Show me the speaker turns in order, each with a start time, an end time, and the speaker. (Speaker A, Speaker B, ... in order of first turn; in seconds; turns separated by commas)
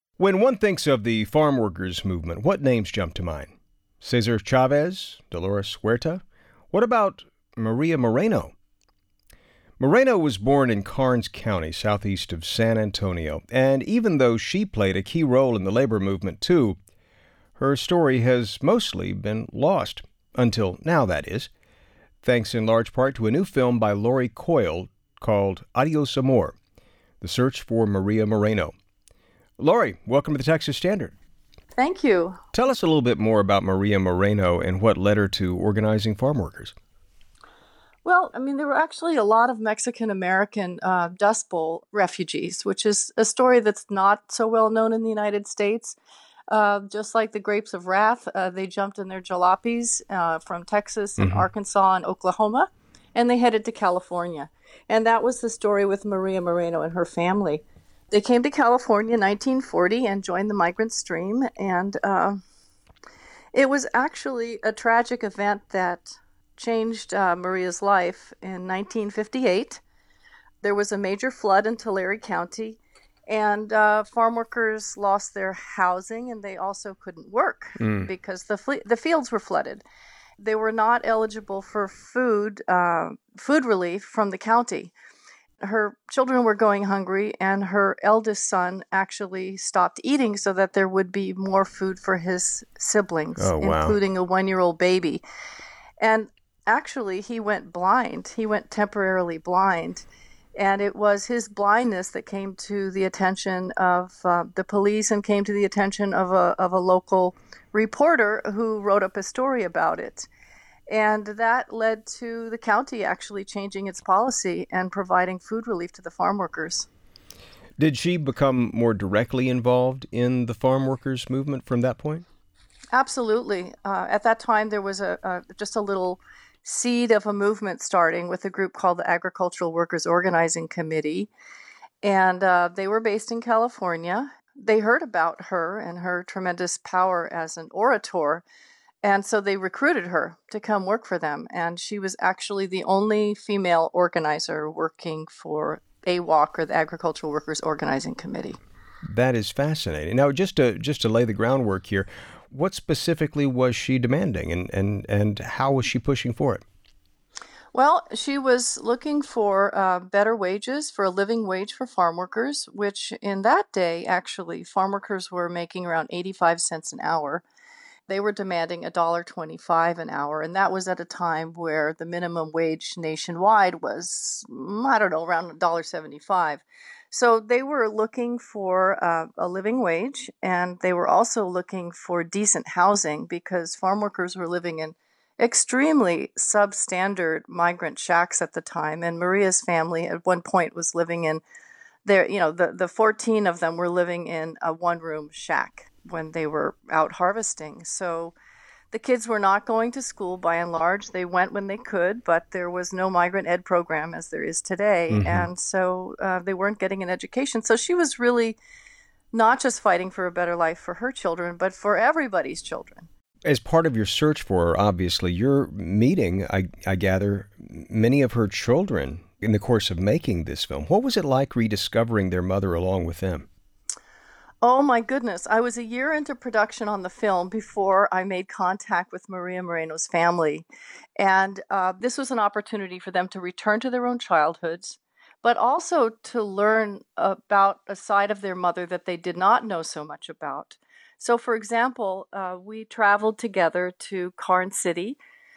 Speaker A: 0.2-3.5, Speaker A: 4.0-8.5, Speaker A: 9.8-16.8, Speaker A: 17.6-21.5, Speaker A: 22.2-26.6, Speaker A: 27.2-28.7, Speaker A: 29.6-31.1, Speaker B: 31.8-32.4, Speaker A: 32.5-36.8, Speaker B: 38.0-46.0, Speaker B: 46.5-62.4, Speaker A: 51.2-51.5, Speaker B: 63.5-69.8, Speaker B: 70.6-79.8, Speaker A: 77.8-78.1, Speaker B: 80.4-84.9, Speaker B: 85.6-95.2, Speaker A: 93.4-94.0, Speaker B: 96.0-110.3, Speaker B: 110.9-116.9, Speaker A: 117.8-122.2, Speaker B: 122.9-131.3, Speaker B: 132.0-138.4, Speaker B: 139.0-148.6, Speaker A: 149.1-156.6, Speaker B: 157.7-167.4, Speaker B: 168.1-191.4, Speaker B: 192.1-198.3, Speaker B: 198.9-208.6, Speaker A: 205.1-205.5, Speaker B: 209.3-213.1, Speaker A: 213.5-223.5, Speaker B: 224.6-230.7, Speaker B: 231.2-245.2